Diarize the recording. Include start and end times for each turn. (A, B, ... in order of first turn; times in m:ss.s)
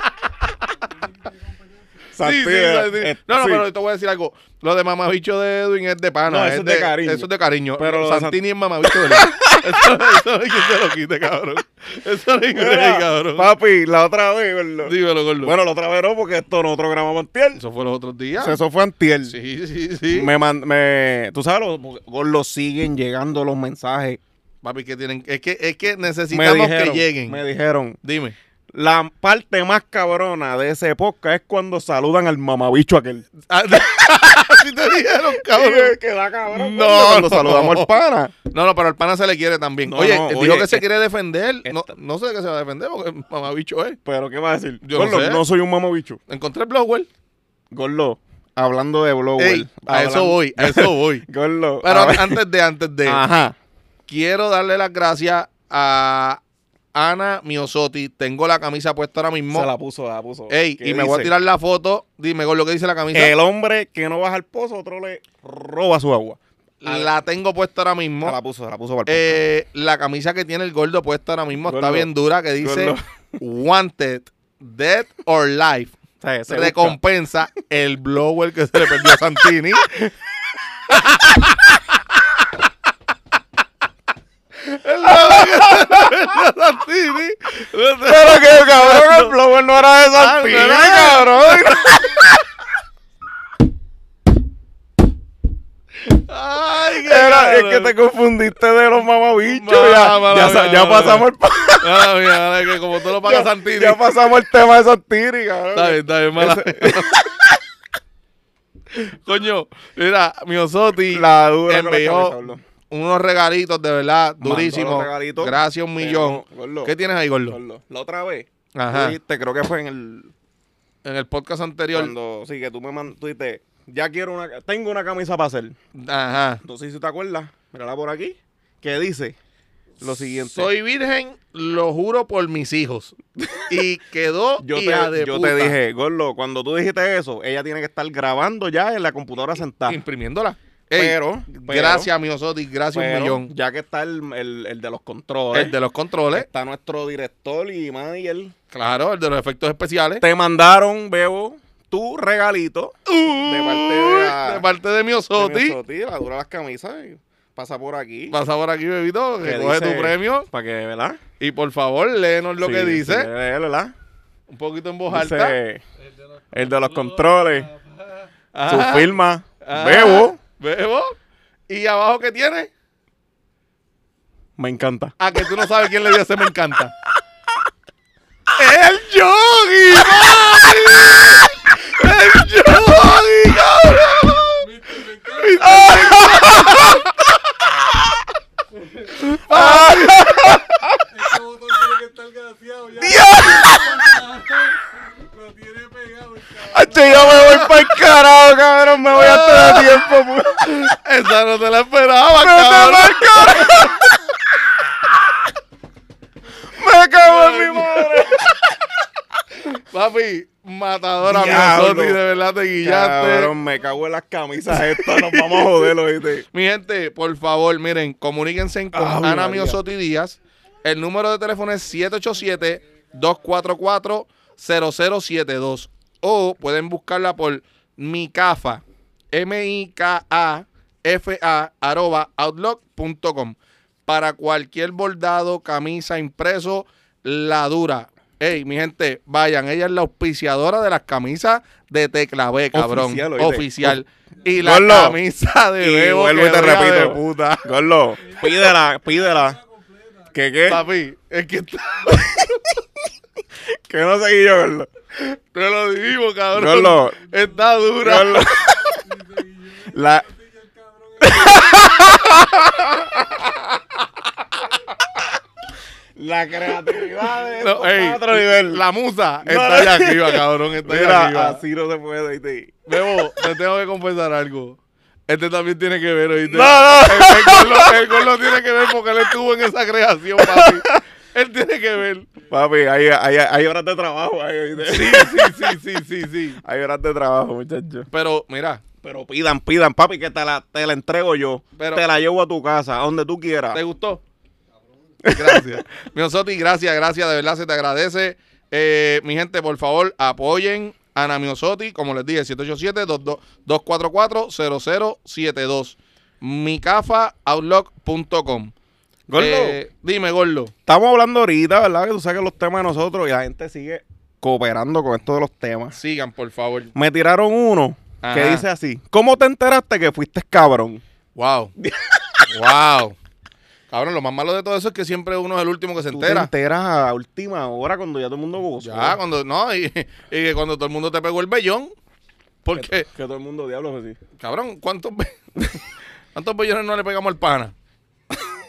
0:00.8-0:02.1 A
0:02.1-0:03.6 B
0:02.2-0:13.5 C
0:06.2-0:09.9 B
0:12.5-0:17.6 B
0:14.8-0:15.5 C
0:17.6-0:18.6 C
0:18.4-0:19.3 B
0:19.3-0:20.3 C
0:20.1-0:24.2 B
0:24.6-0:27.4 C
0:26.3-0:28.0 B
0:28.0-0:28.3 C
0:28.7-0:33.3 B
0:33.5-0:36.0 C
0:35.3-0:38.3 B
0:36.5-0:37.9 C
0:38.5-0:44.0 C
0:39.8-0:40.8 B
0:41.6-0:41.9 B
0:44.0-0:46.2 B
0:44.8-0:45.4 C
0:46.3-0:47.1 C
0:47.7-0:52.4 B
0:49.4-0:51.2 C
0:51.8-0:53.2 C
0:53.0-0:53.6 B
0:54.1-0:56.4 C
0:56.9-0:59.7 C
0:59.5-1:01.3 B
1:00.5-1:03.3 C
1:03.1-1:07.1 B
1:06.8-1:08.4 C
1:08.2-1:09.4 B
1:09.0-1:20.1 C
1:11.6-1:13.0 B
1:16.2-1:17.0 B
1:20.9-1:22.2 C
1:20.9-1:21.5 B
1:24.6-1:29.3 C
1:25.0-1:26.2 B
1:28.0-1:32.4 B
1:30.1-1:32.0 C
1:36.0-1:37.9 C
1:36.9-1:42.1 B
1:39.4-1:41.3 C
1:41.8-1:44.0 C
1:43.0-1:47.6 B
1:45.7-1:47.2 C
1:48.9-1:52.4 C
1:51.1-1:52.6 B
1:52.9-1:57.6 C
1:54.4-1:56.9 B
1:57.5-2:00.3 B
1:58.8-1:59.2 C
2:01.0-2:02.1 C
2:01.9-2:05.8 B
2:06.0-2:06.6 C
2:06.6-2:09.4 B
2:10.0-2:10.7 B
2:10.2-2:13.1 C
2:13.4-2:13.7 B
2:13.7-2:15.8 C
2:14.6-2:20.0 B
2:19.9-2:23.5 C
2:21.0-2:22.1 B
2:22.9-2:25.7 B
2:25.5-2:26.5 C
2:26.3-2:28.5 B
2:28.7-2:30.2 C
2:30.2-2:34.6 B
2:33.1-2:35.8 C
2:35.4-2:38.4 B
2:38.3-2:40.5 C
2:39.4-2:41.2 B
2:41.4-2:43.3 C
2:42.6-2:43.9 B
2:44.5-2:45.6 C
2:45.1-2:45.8 B
2:46.5-2:47.7 B
2:48.5-2:51.2 C
2:48.7-2:50.4 B
2:51.7-2:52.7 C
2:54.6-2:55.1 B
2:55.2-2:56.9 C
2:58.5-3:04.6 C
3:04.6-3:06.2 A
3:05.4-3:07.2 C
3:05.6-3:07.1 B
3:07.7-3:08.2 B
3:08.7-3:09.8 A
3:09.2-3:10.8 C
3:09.3-3:11.0 B
3:11.0-3:17.5 A
3:13.0-3:14.1 B
3:16.7-3:21.0 B
3:17.2-3:17.7 C
3:19.1-3:20.0 C
3:20.6-3:24.0 C
3:22.3-3:25.4 B
3:26.6-3:29.0 B
3:27.2-3:28.3 C
3:29.6-3:33.5 C
3:31.2-3:32.2 B
3:32.8-3:36.4 B
3:34.7-3:35.9 C
3:36.5-4:07.7 C
3:38.9-3:39.8 B
4:02.7-4:04.0 B
4:04.6-4:05.2 B
4:05.8-4:09.6 B
4:08.2-4:10.8 A
4:10.3-4:10.8 B
4:10.7-4:12.6 C
4:13.6-4:14.9 B
4:15.1-4:18.6 C
4:16.5-4:17.2 B
4:17.2-4:18.0 A
4:18.0-4:19.0 B
4:18.6-4:22.3 A
4:19.8-4:20.2 B
4:21.2-4:23.7 B
4:26.2-4:28.8 B
4:27.6-4:31.6 C
4:29.4-4:33.5 B
4:32.9-4:42.3 C
4:36.4-4:38.2 B
4:40.4-4:41.0 B
4:42.5-4:45.8 B
4:44.8-4:46.6 C
4:46.6-4:48.1 B
4:48.1-4:48.8 C
4:49.0-4:53.8 B
4:51.8-4:52.0 C
4:53.7-4:54.2 C
4:55.2-4:55.7 B
4:55.3-5:08.7 C
5:09.3-5:09.8 B
5:09.4-5:10.7 C
5:10.9-5:16.0 B
5:15.9-5:16.9 C
5:16.9-5:21.0 B
5:18.2-5:18.6 C
5:21.4-5:21.7 C
5:21.8-5:22.4 B
5:22.5-5:23.2 C
5:23.9-5:26.5 C
5:26.1-5:29.2 B
5:28.8-5:31.9 C
5:32.6-5:33.1 C
5:32.7-5:34.2 B
5:34.4-5:35.4 C
5:36.3-5:37.7 C